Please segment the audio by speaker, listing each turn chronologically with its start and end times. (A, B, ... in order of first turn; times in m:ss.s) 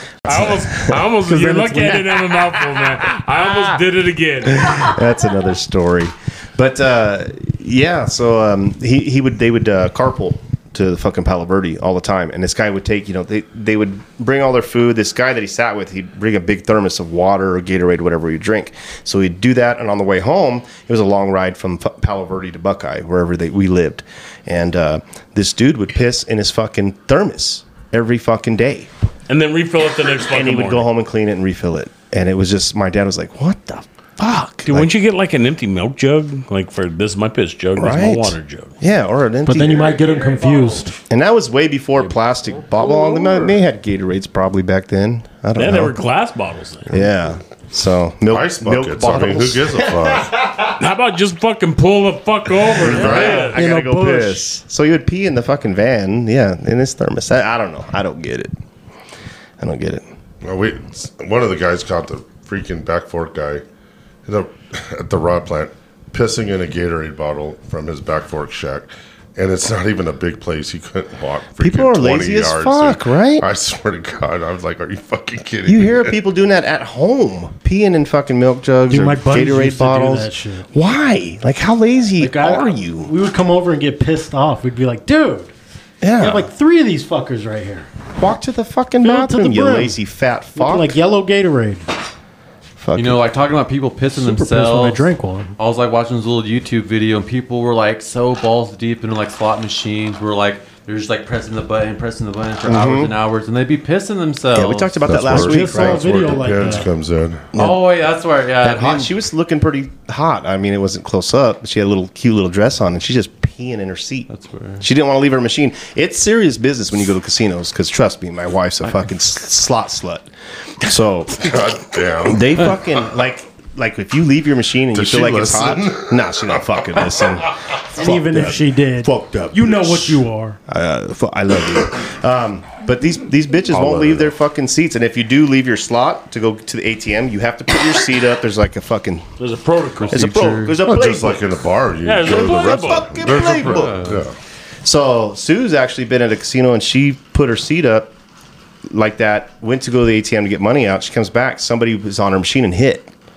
0:00.3-0:01.0 A
0:00.3-0:05.0 B
0:01.2-0:02.1 C
0:04.6-0:28.9 A
0:29.3-0:30.9 B
0:30.2-0:34.9 A
0:34.6-0:38.7 B
0:37.8-0:40.0 A
0:39.4-0:41.0 C
0:41.1-0:46.0 A
0:45.6-0:47.0 B
0:46.9-0:50.3 A
0:48.3-0:50.4 D
0:50.8-0:53.6 B
0:52.7-0:58.5 A
0:52.9-0:53.5 D
0:53.4-0:54.5 C
0:59.6-1:00.1 A
1:00.4-1:03.6 D
1:04.3-1:16.2 D
1:11.6-1:13.5 A
1:15.7-1:23.1 A
1:18.9-1:20.7 C
1:22.2-1:25.5 C
1:26.0-1:26.5 A
1:26.2-1:27.9 C
1:28.2-1:31.0 A
1:29.0-1:30.0 C
1:30.6-1:31.8 C
1:32.8-1:33.2 A
1:33.0-1:45.1 E
1:34.1-1:35.6 C
1:42.6-1:43.1 A
1:44.6-1:46.5 A
1:45.0-1:47.5 D
1:45.3-1:46.9 C
1:47.5-1:47.8 A
1:47.6-1:49.1 E
1:48.6-1:54.3 A
1:54.3-1:54.9 E
1:54.8-2:00.3 A
2:00.8-2:01.6 A
2:01.4-2:02.6 D
2:02.2-2:19.2 A
2:04.9-2:06.6 D
2:07.9-2:10.6 C
2:13.7-2:14.3 D
2:19.4-2:20.4 B
2:20.0-2:20.8 E
2:20.1-2:21.5 A
2:20.8-2:24.4 D
2:22.0-2:23.2 B
2:22.2-2:24.1 A
2:23.4-2:24.2 E
2:24.8-2:28.1 A
2:28.9-2:33.1 A